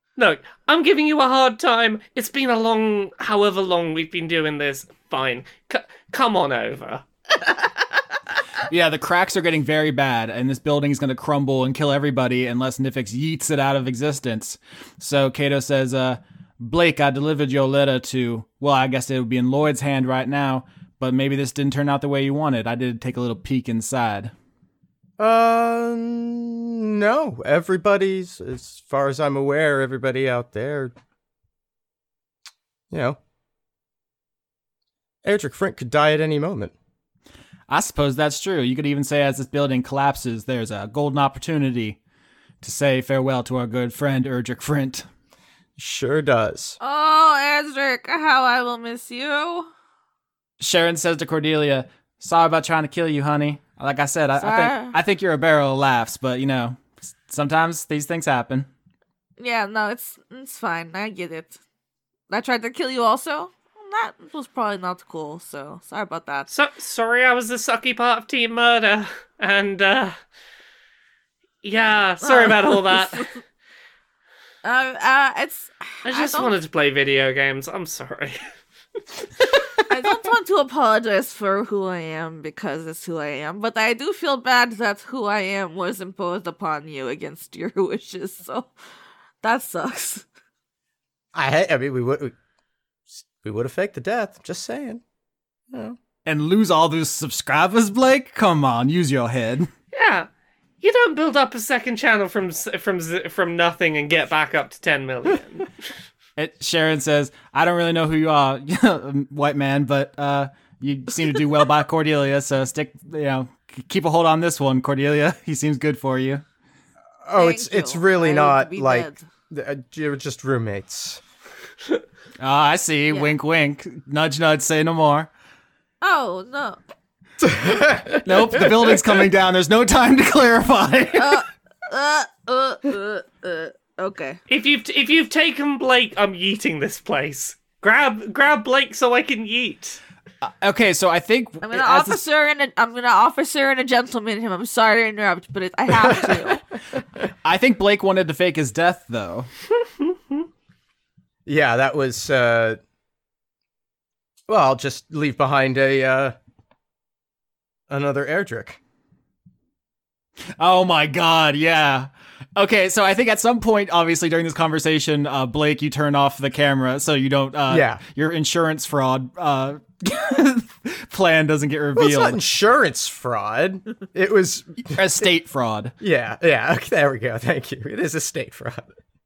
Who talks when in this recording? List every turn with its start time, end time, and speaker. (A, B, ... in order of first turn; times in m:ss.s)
0:00.2-0:07.0 A
0:08.7-0:24.3 B
0:25.2-0:30.9 C
0:32.9-0:33.2 C
0:35.2-0:36.7 C
0:37.7-0:42.0 B
0:42.6-0:45.0 B
0:45.8-0:46.8 C
0:46.8-0:49.7 D
0:50.6-0:58.7 B
0:54.4-0:55.0 D
0:59.4-1:01.6 D
1:02.3-1:06.5 D
1:06.5-1:10.2 A
1:11.6-1:13.3 A
1:12.2-1:13.4 D
1:14.6-1:16.5 D
1:16.1-1:18.4 A
1:19.9-1:28.7 D
1:29.4-1:30.2 D
1:31.3-1:32.3 C
1:33.1-1:35.0 C
1:35.7-1:36.0 C
1:36.2-1:39.7 B
1:39.9-1:40.3 A
1:40.8-1:45.7 A
1:46.4-1:56.4 B
1:57.2-2:01.2 C
1:57.4-1:59.2 D
2:02.4-2:05.3 B
2:03.1-2:03.4 D
2:06.0-2:06.8 D
2:07.4-2:08.9 C
2:08.2-2:11.4 B
2:11.2-2:14.4 D
2:14.5-2:20.0 A
2:20.4-2:22.2 B
2:21.6-2:26.6 D
2:25.9-2:26.5 C
2:27.4-2:29.5 B
2:31.4-2:32.8 C
2:34.5-2:36.4 C
2:37.9-2:38.8 C
2:40.6-2:52.4 B
2:47.7-2:48.0 C
2:51.9-2:55.0 C
2:54.9-2:55.9 B
2:56.0-2:58.9 C